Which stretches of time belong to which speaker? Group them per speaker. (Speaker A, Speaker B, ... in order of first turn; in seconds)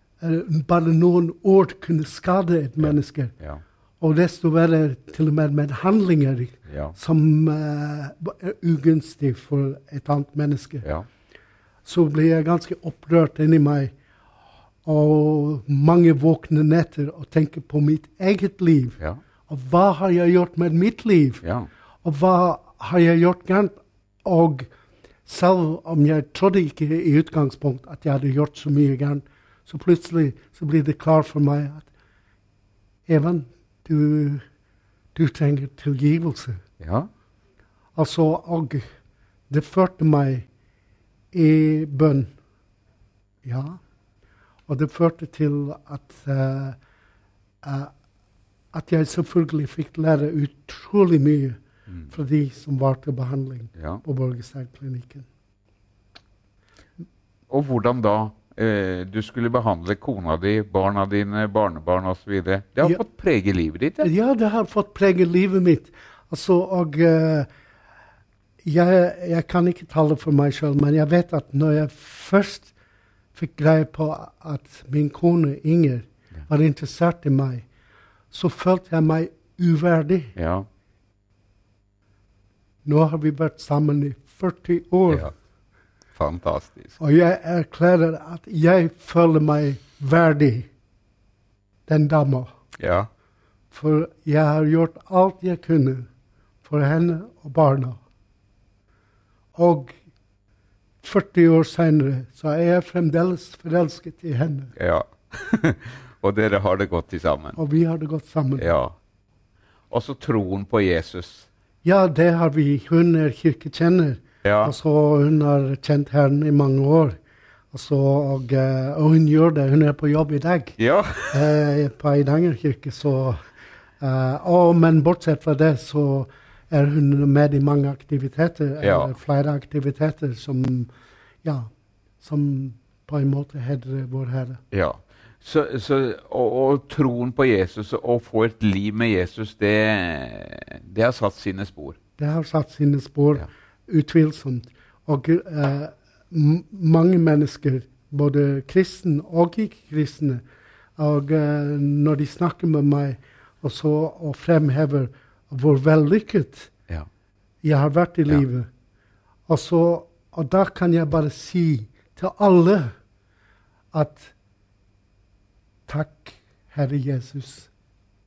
Speaker A: 0.2-3.3, 4.0-10.8, 11.8-13.9, 14.8-21.4, 22.0-24.7, 25.2-31.9, 33.1-34.4, 35.1-36.6, 38.0-38.9, 39.5-40.5, 41.3-42.3, 43.4-43.8, 44.7-46.8, 47.6-47.9, 48.7-55.2, 64.0-67.5, 68.6-72.7, 73.3-77.6, 78.3-80.3, 82.8-85.3, 87.0-90.7, 91.9-92.5, 93.7-96.1, 96.6-98.0, 99.5-99.9, 101.0-104.7, 107.5-108.7, 111.8-117.2, 117.7-120.8, 121.3-123.4, 124.0-130.9, 131.4-131.7, 132.2-134.6, 142.2-150.4, 151.0-156.7, 157.6-158.7, 159.5-162.9, 163.9-164.3, 165.9-167.7
Speaker B: 2.8-3.6, 6.7-6.9, 21.4-21.7, 36.8-37.1, 57.5-64.1, 80.3-80.7, 86.1-87.0, 92.8-93.1, 104.8-107.6, 108.6-108.9, 109.9-111.5, 114.4-114.7, 120.8-121.4, 128.8-129.1, 134.7-142.0